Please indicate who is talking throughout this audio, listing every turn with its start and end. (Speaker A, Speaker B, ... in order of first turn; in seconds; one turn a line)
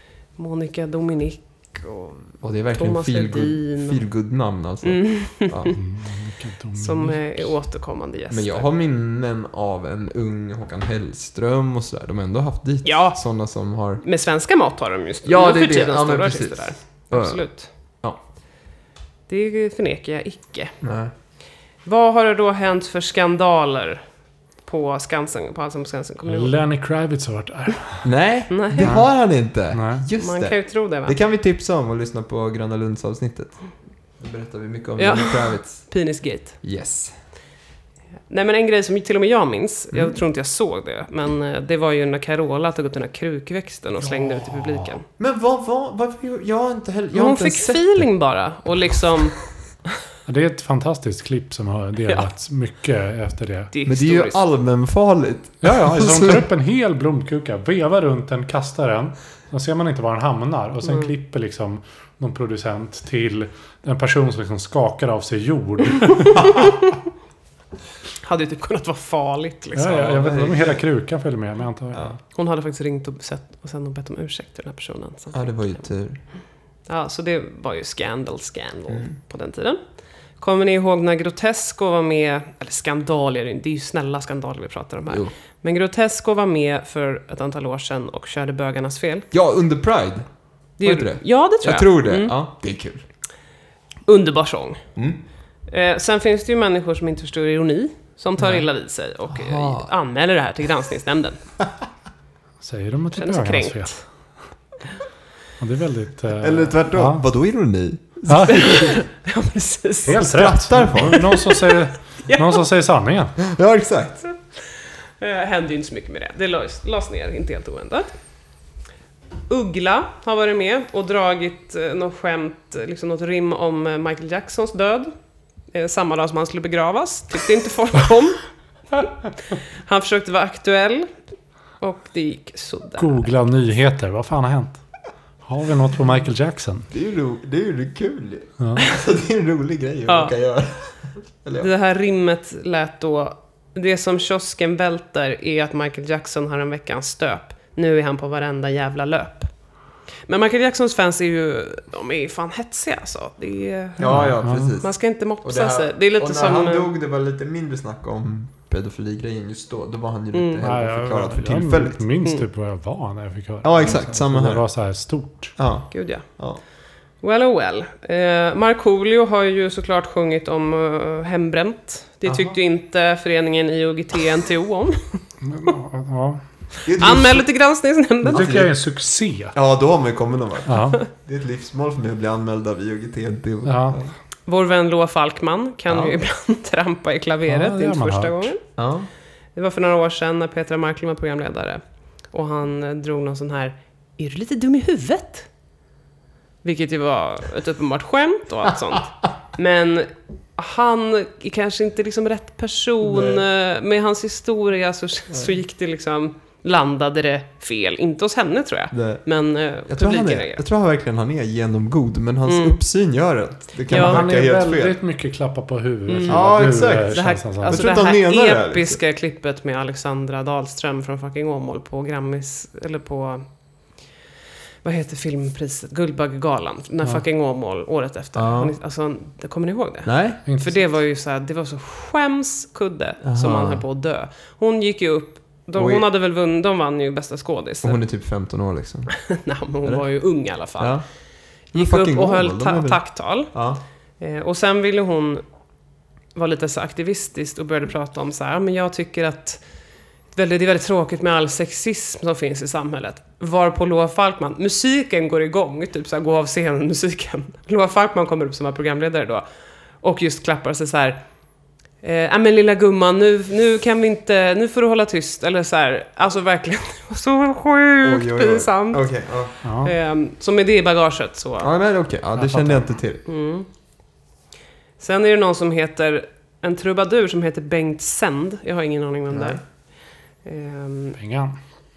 Speaker A: 0.3-4.0
Speaker B: 2.4-5.7
Speaker A: 4.8-5.8
Speaker C: 5.8-7.2
Speaker A: 6.8-8.7
Speaker B: 8.3-14.0
Speaker A: 12.8-13.2
Speaker A: 14.0-17.7
Speaker B: 15.2-17.4
Speaker A: 19.3-20.8
Speaker B: 20.8-21.1
Speaker A: 21.8-24.0
Speaker A: 24.6-26.6
Speaker C: 26.3-28.1
Speaker B: 28.0-33.6
Speaker A: 28.5-28.9
Speaker C: 28.8-29.1
Speaker C: 29.7-30.0
Speaker A: 30.2-31.1
Speaker B: 34.2-35.9
Speaker A: 35.0-36.6
Speaker B: 36.6-37.1
Speaker A: 38.3-45.0
Speaker C: 44.0-44.9
Speaker B: 45.2-48.0
Speaker A: 47.1-49.4
Speaker C: 50.2-53.7
Speaker A: 53.7-54.4
Speaker B: 53.9-56.5
Speaker C: 55.6-66.5
Speaker A: 60.8-61.1
Speaker A: 68.2-70.2
Speaker C: 69.7-72.2
Speaker B: 69.9-70.8
Speaker A: 72.3-75.5
Speaker B: 75.3-76.2
Speaker A: 76.9-79.8
Speaker A: 80.4-89.3
Speaker B: 89.3-90.3
Speaker A: 90.8-92.3
Speaker B: 90.8-93.0
Speaker A: 94.0-94.8
Speaker B: 95.0-95.2
Speaker A: 95.7-101.4
Speaker B: 99.3-99.9
Speaker C: 102.6-104.0
Speaker A: 103.1-104.0
Speaker C: 105.6-107.3
Speaker B: 106.4-108.9
Speaker C: 108.3-108.6
Speaker A: 108.3-110.2
Speaker C: 110.1-113.4
Speaker B: 110.1-111.2
Speaker A: 111.0-112.6
Speaker B: 113.4-114.2
Speaker A: 115.2-118.1
Speaker A: 119.5-125.1
Speaker A: 125.7-128.4
Speaker A: 129.8-131.1
Speaker A: 131.8-133.3
Speaker C: 133.0-134.8
Speaker C: 135.4-136.9
Speaker B: 136.9-141.7
Speaker C: 138.6-138.8
Speaker A: 140.1-140.3
Speaker A: 141.6-149.5
Speaker A: 150.3-156.9
Speaker B: 154.0-162.0
Speaker C: 154.0-154.7
Speaker A: 160.3-160.6
Speaker C: 160.6-165.5
Speaker B: 163.6-164.6
Speaker B: 165.6-166.6
Speaker A: 165.9-166.2
Speaker A: 167.2-175.7
Speaker C: 175.4-176.4
Speaker B: 176.8-177.4
Speaker A: 176.9-178.5
Speaker C: 178.2-179.5
Speaker B: 178.3-178.7
Speaker B: 179.5-184.1
Speaker C: 180.7-181.0
Speaker C: 183.7-184.0
Speaker A: 184.5-188.6
Speaker B: 185.9-186.2
Speaker C: 187.5-188.5
Speaker B: 188.8-189.1
Speaker A: 189.5-195.5
Speaker A: 196.6-210.6
Speaker B: 203.0-203.4
Speaker B: 208.9-209.2
Speaker B: 209.9-215.0
Speaker A: 212.4-212.8
Speaker A: 213.9-214.2
Speaker C: 213.9-217.8
Speaker A: 216.1-223.4
Speaker B: 216.3-219.0
Speaker A: 224.8-238.0
Speaker B: 228.3-228.7
Speaker B: 230.0-230.4
Speaker C: 230.4-230.8
Speaker B: 233.2-233.8
Speaker B: 235.8-236.0
Speaker B: 237.8-239.2
Speaker A: 239.2-241.0
Speaker B: 240.8-241.0
Speaker A: 241.7-243.5
Speaker B: 241.7-243.8
Speaker A: 244.2-245.4
Speaker A: 246.3-249.6
Speaker A: 250.3-259.4
Speaker A: 260.0-261.2
Speaker A: 262.0-269.1
Speaker B: 268.0-269.5
Speaker A: 269.6-271.7
Speaker C: 269.6-269.9
Speaker B: 271.6-273.2
Speaker C: 272.4-272.9
Speaker A: 273.2-273.7
Speaker A: 275.0-279.6
Speaker B: 279.3-279.6
Speaker A: 280.4-281.1
Speaker C: 281.2-281.6